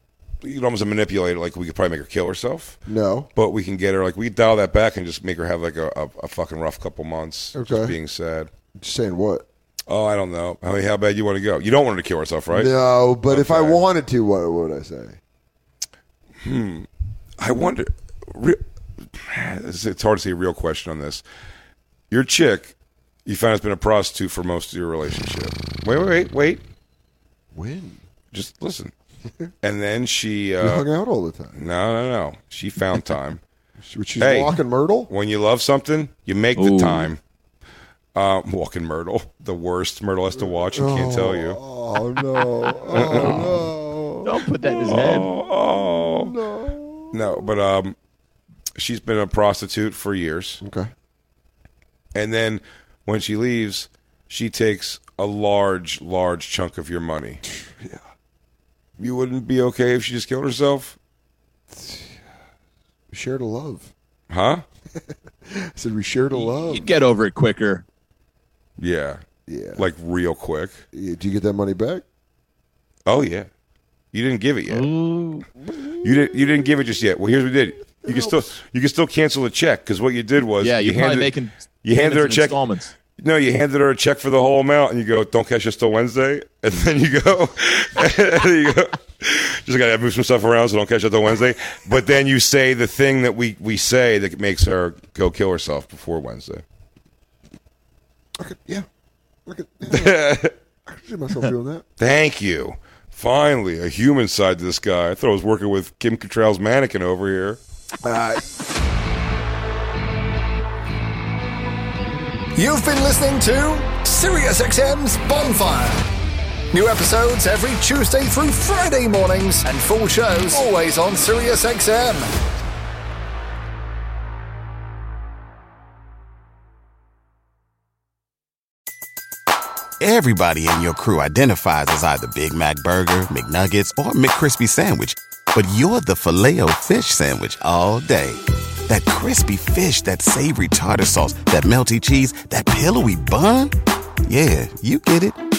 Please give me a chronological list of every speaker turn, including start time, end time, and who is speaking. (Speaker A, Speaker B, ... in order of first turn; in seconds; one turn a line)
Speaker A: 0.4-2.8
Speaker B: 2.9-3.3
Speaker A: 3.3-8.5
Speaker B: 7.5-8.0
Speaker B: 8.8-9.4
Speaker A: 9.9-12.7
Speaker B: 12.5-15.2
Speaker A: 13.3-13.8
Speaker A: 16.4-16.9
Speaker A: 17.4-18.6
Speaker A: 19.1-21.2
Speaker A: 22.1-22.7
Speaker A: 23.2-26.6
Speaker B: 27.5-28.0
Speaker A: 28.3-28.9
Speaker A: 29.6-30.9
Speaker B: 30.6-31.6
Speaker A: 31.5-33.4
Speaker B: 33.8-35.1
Speaker A: 34.2-37.2
Speaker C: 36.5-37.1
Speaker A: 38.1-41.6
Speaker B: 40.7-45.3
Speaker A: 42.9-43.6
Speaker C: 43.1-43.4
Speaker C: 44.2-45.3
Speaker A: 44.8-46.3
Speaker B: 46.0-47.4
Speaker A: 47.1-47.9
Speaker A: 48.8-50.6
Speaker B: 50.6-50.9
Speaker A: 52.1-57.4
Speaker B: 57.4-58.0
Speaker A: 59.0-61.0
Speaker B: 61.7-62.1
Speaker B: 63.1-63.9
Speaker A: 64.3-64.6
Speaker B: 65.5-66.9
Speaker C: 66.3-67.8
Speaker A: 68.8-69.2
Speaker B: 69.5-69.8
Speaker A: 69.8-70.8
Speaker B: 70.9-72.0
Speaker A: 73.0-73.5
Speaker A: 74.1-74.9
Speaker C: 74.7-75.5
Speaker A: 76.0-82.6
Speaker B: 78.0-78.5
Speaker C: 80.6-82.9
Speaker A: 83.2-96.6
Speaker B: 98.4-98.8
Speaker B: 99.5-101.8
Speaker A: 99.9-100.5
Speaker A: 102.0-107.6
Speaker B: 108.0-108.5
Speaker D: 112.5-116.1
Speaker D: 116.7-122.3
Speaker E: 130.0-143.7
Speaker E: 144.2-145.4